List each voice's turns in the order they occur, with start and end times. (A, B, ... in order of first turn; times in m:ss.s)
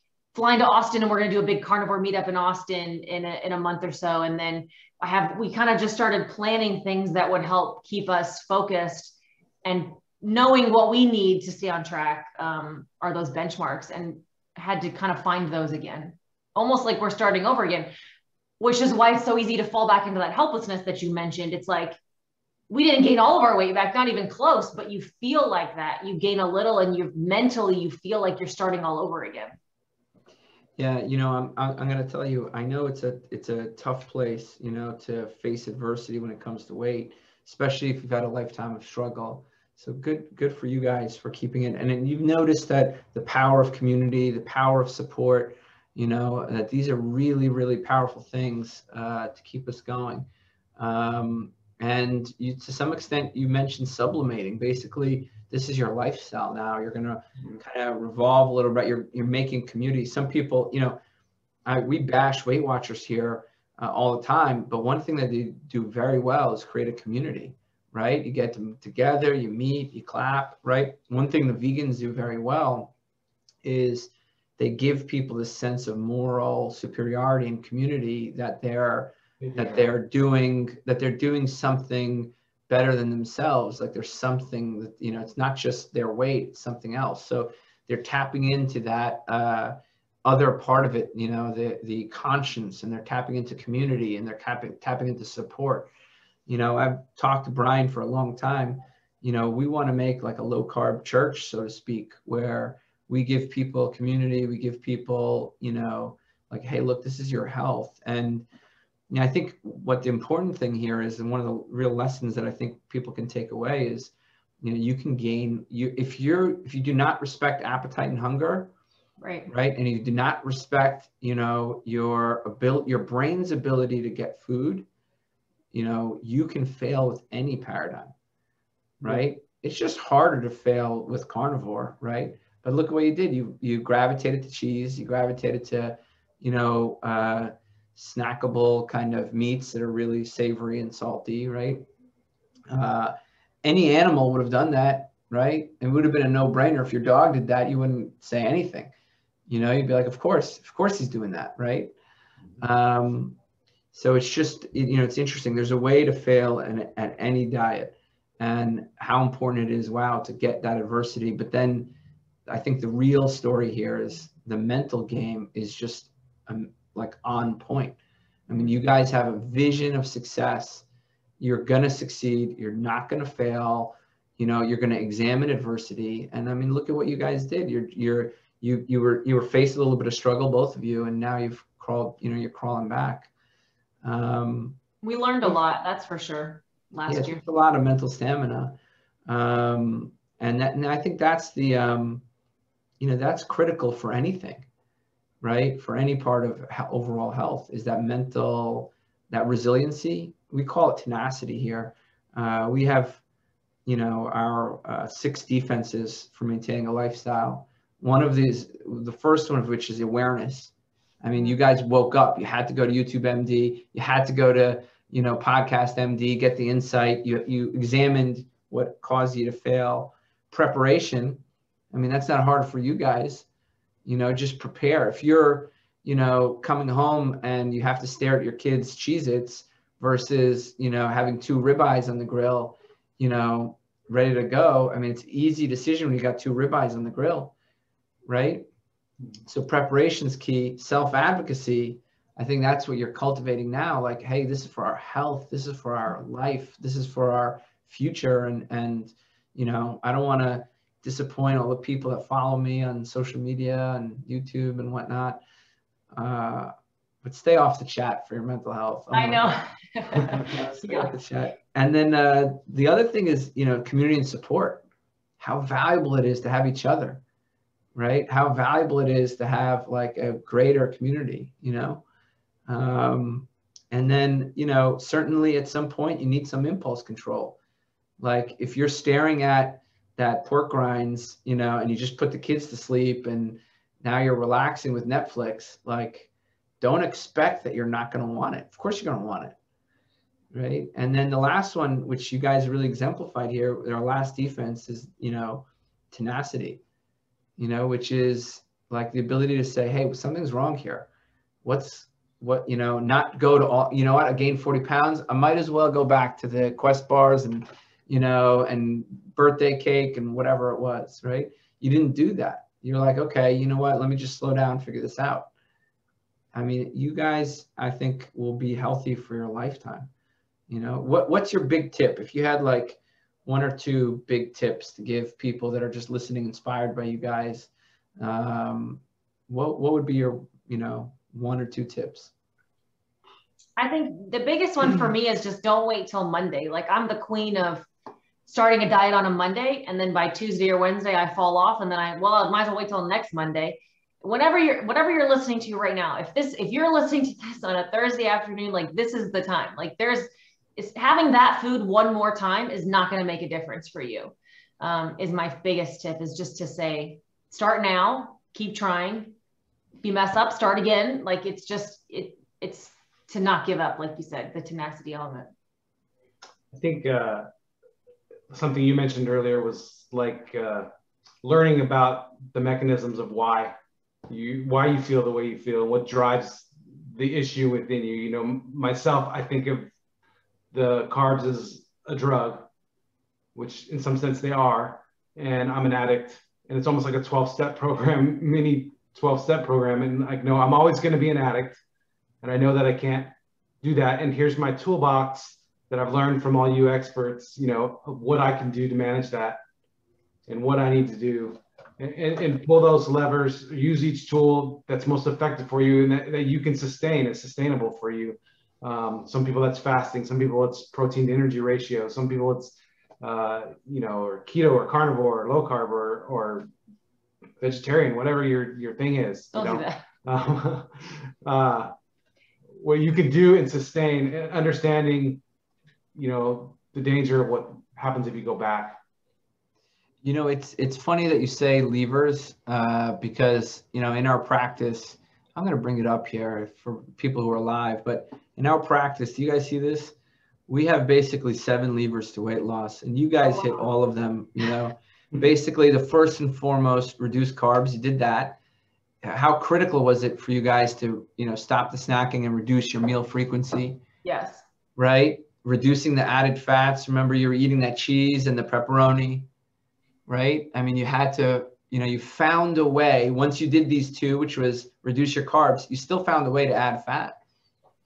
0:00.3-0:17.9 A
0:18.6-0:22.0 A
0:22.7-0:29.5 A
0:30.8-1:01.0 B
1:01.7-1:12.9 B
1:13.6-1:35.9 B
1:19.4-1:19.8 C
1:36.5-1:48.5 B
1:49.1-1:58.7 B
1:59.2-1:59.5 A
1:59.5-2:04.9 B
2:05.7-2:08.1 B
2:09.0-2:21.9 B
2:22.7-2:28.9 B
2:29.5-2:31.9 B
2:32.6-2:33.4 B
2:33.9-2:41.9 B
2:42.5-2:50.8 B
2:51.4-3:03.3 B
3:04.0-3:04.8 B
3:05.0-3:07.4 A
3:07.1-3:12.2 B
3:13.0-3:14.7 B
3:15.4-3:23.2 B
3:23.9-3:41.4 B
3:41.9-3:43.5 B
3:44.0-3:57.5 B
3:58.3-3:58.7 B
3:59.4-4:15.4 B
4:16.1-4:19.6 B
4:19.1-4:21.1 A
4:20.2-4:24.8 B
4:25.4-4:27.2 B
4:28.0-4:32.0 B
4:32.7-4:37.6 B
4:38.2-4:46.3 B
4:46.8-4:49.6 B
4:50.5-4:56.8 B
4:57.6-5:01.1 B
5:01.6-5:15.5 B
5:16.5-5:20.1 B
5:20.7-5:32.3 B
5:33.8-5:37.9 A
5:38.5-5:59.3 A
6:00.0-6:05.5 A
6:06.7-6:07.5 C
6:08.5-6:10.9 C
6:11.4-6:13.8 C
6:14.3-6:19.9 C
6:20.7-6:22.7 C
6:23.6-6:31.8 C
6:32.4-6:39.6 C
6:40.5-6:56.7 C
6:57.6-7:01.9 C
6:59.5-7:00.0 A
7:02.8-7:05.4 C
7:06.2-7:09.0 C
7:10.2-7:20.2 B
7:20.7-7:28.6 B
7:23.4-7:23.9 A
7:29.2-7:34.0 B
7:34.2-7:34.6 A
7:35.0-7:39.5 B
7:40.3-7:47.4 B